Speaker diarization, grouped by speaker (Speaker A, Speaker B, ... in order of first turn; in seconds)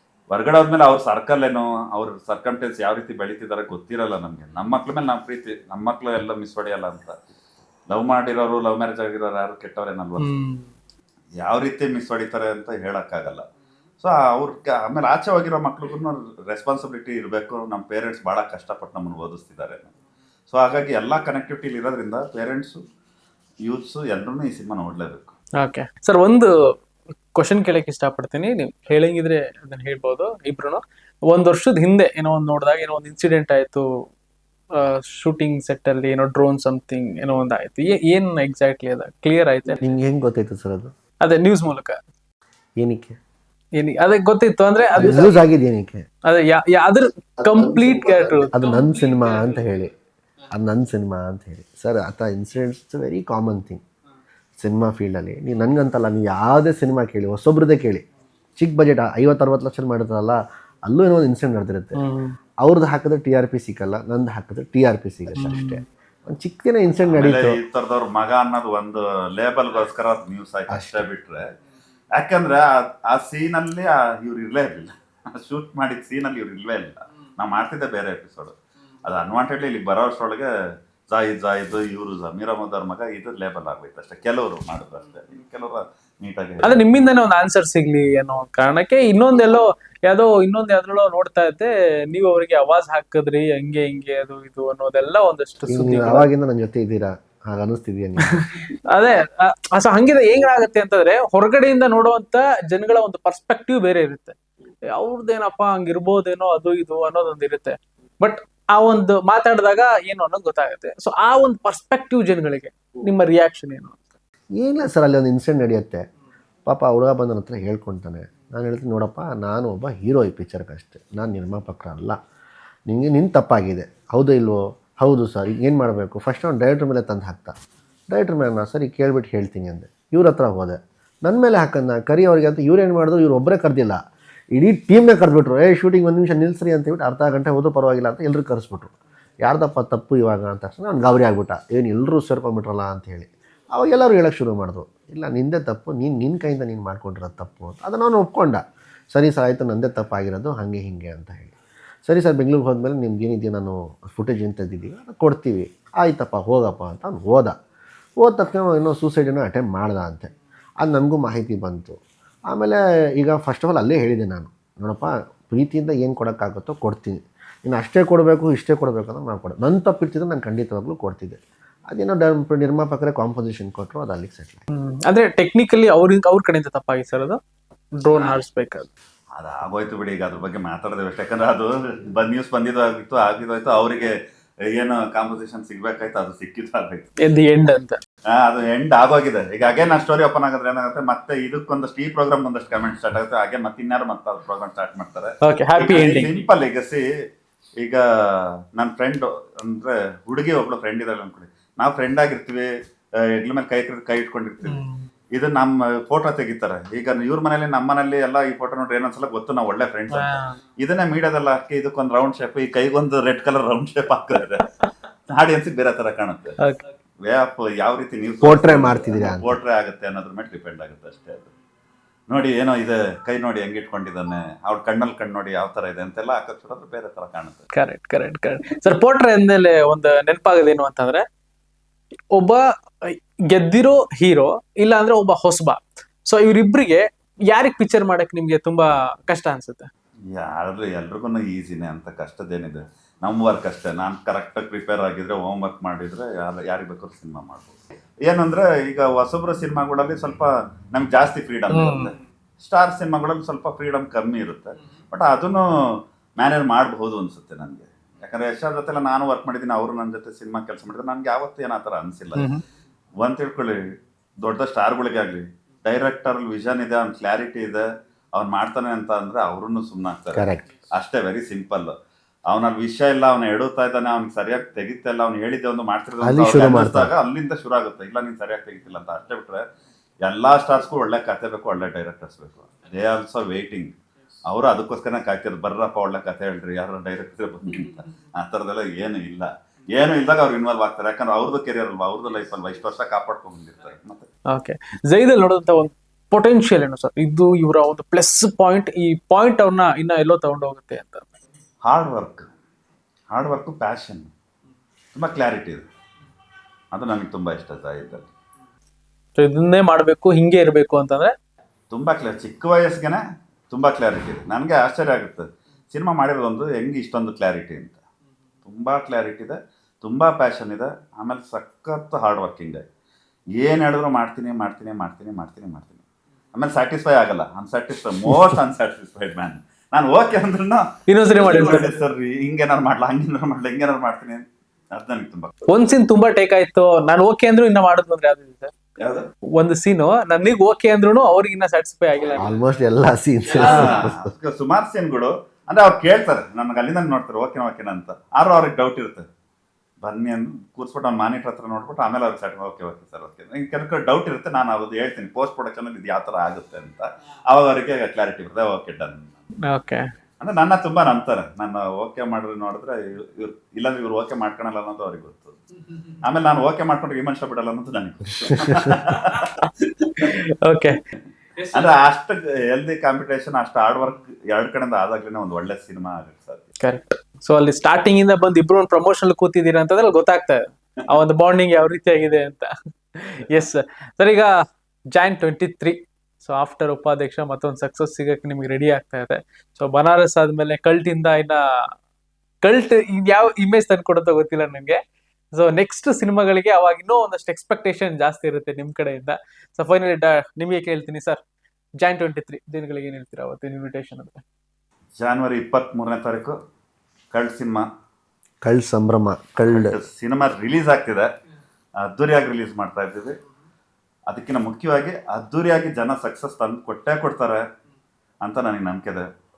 Speaker A: 0.3-7.2, 7.9-10.3, 11.4-13.4, 14.0-19.9, 20.5-22.8, 23.7-25.4, 67.0-71.5, 72.2-80.5, 81.1-86.8, 179.4-184.1, 184.7-187.1, 188.3-197.1, 197.8-204.8, 205.3-214.7, 215.3-216.6, 217.2-221.5, 222.3-227.6, 240.3-262.5, 263.2-263.8, 264.4-271.9, 272.5-279.6, 280.2-294.3, 301.9-302.5, 303.3-304.3, 305.1-305.9, 306.9-308.3, 311.9-318.0, 318.6-322.8, 323.6-326.0, 326.5-335.5, 339.0-339.3, 343.6-349.2, 350.0-359.4, 360.4-365.6, 366.2-369.5, 371.7-376.7, 405.2-406.6, 407.3-407.9, 409.7-411.3, 412.1-413.4, 414.3-417.6, 418.4-419.2
Speaker B: 10.2-10.7, 25.6-26.5, 27.4-33.9, 34.7-39.9, 41.2-42.0, 43.8-45.4, 46.3-49.8, 62.0-62.4, 65.3-65.8, 86.6-96.3, 98.3-104.3, 104.9-114.0, 174.7-177.4, 178.0-178.9, 187.2-188.0, 195.4-196.3, 204.7-205.1, 210.1-210.6, 227.8-231.2, 232.3-239.9, 251.7-252.1, 262.4-262.6, 294.5-301.3, 309.4-311.3, 331.1-332.0, 335.7-338.7, 339.6-342.5, 343.5-344.0, 359.7-360.1, 369.3-371.0, 371.6-372.0, 376.8-384.5, 385.1-391.6, 392.6-395.0, 395.5-401.4, 402.0-404.4
Speaker C: 39.8-40.9, 42.8-43.2, 44.9-46.1, 47.4-49.9, 50.5-53.8, 54.6-58.0, 58.6-62.0, 62.6-67.6, 70.7-71.0, 95.7-98.6, 114.6-116.0, 116.7-122.2, 122.9-127.5, 128.1-134.0, 134.6-138.9, 139.4-151.5, 152.1-157.6, 158.2-162.0, 162.5-174.6, 218.4-219.6, 270.4-270.7, 276.2-277.1, 342.4-344.3, 368.7-369.0, 408.6-410.0